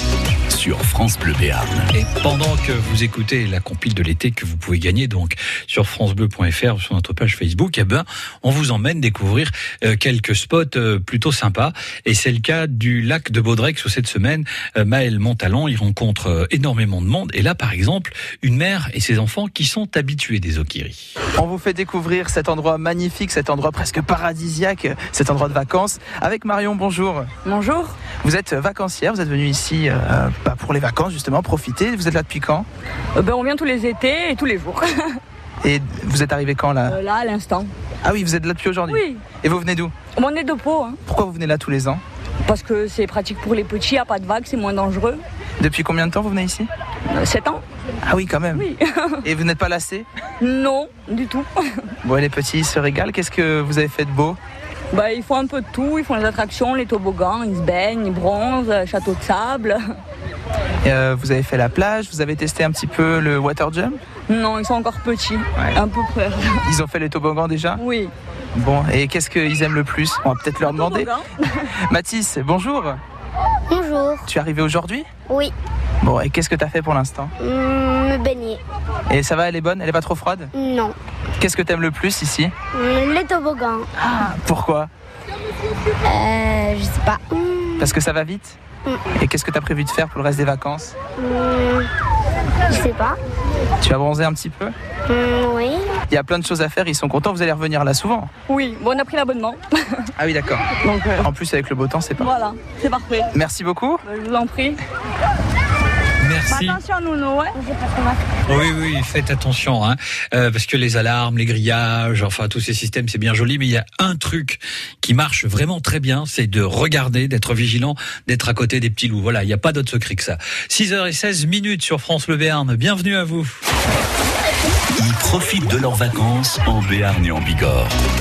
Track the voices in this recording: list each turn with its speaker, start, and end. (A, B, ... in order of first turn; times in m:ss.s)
0:00.5-0:01.9 A
0:01.9-0:21.2 B
0:21.3-0:27.3 C
0:27.4-0:28.0 D
0:28.2-0:32.7 C
0:33.1-0:35.2 D
0:35.6-0:37.0 C
0:36.9-0:37.7 D
0:38.0-0:39.9 C
0:38.9-0:39.2 D
0:40.1-0:41.0 D
0:41.0-0:42.0 C
0:42.4-0:45.2 D
0:45.6-0:46.7 C
0:47.1-0:47.6 D
0:48.0-0:48.6 C
0:48.5-0:49.3 D
0:49.2-0:50.0 C
0:50.4-0:51.9 D
0:52.0-0:54.4 C
0:54.9-0:59.8 D
1:00.8-1:04.0 C
1:04.3-1:06.6 D
1:06.6-1:07.8 C
1:07.8-1:08.1 D
1:08.5-1:11.1 C
1:10.6-1:11.7 D
1:11.9-1:13.0 C
1:13.7-1:14.3 E
1:14.2-1:15.1 C
1:16.0-1:17.3 C
1:17.4-1:18.6 E
1:19.1-1:20.5 C
1:20.5-1:20.9 E
1:21.4-1:22.5 C
1:22.7-1:23.9 E
1:24.0-1:24.9 C
1:26.0-1:27.9 E
1:27.8-1:28.6 C
1:29.1-1:30.9 C
1:31.2-1:31.9 E
1:32.7-1:33.2 E
1:33.8-1:34.7 C
1:35.1-1:35.9 E
1:36.1-1:38.3 C
1:38.5-1:40.1 D
1:40.2-1:40.7 C
1:40.8-1:41.3 D
1:41.2-1:42.3 C
1:42.2-1:43.3 D
1:43.3-1:44.0 C
1:44.0-1:44.8 D
1:46.2-1:46.8 B
1:46.5-1:47.7 D
1:48.4-2:03.6 B
2:05.0-2:07.9 A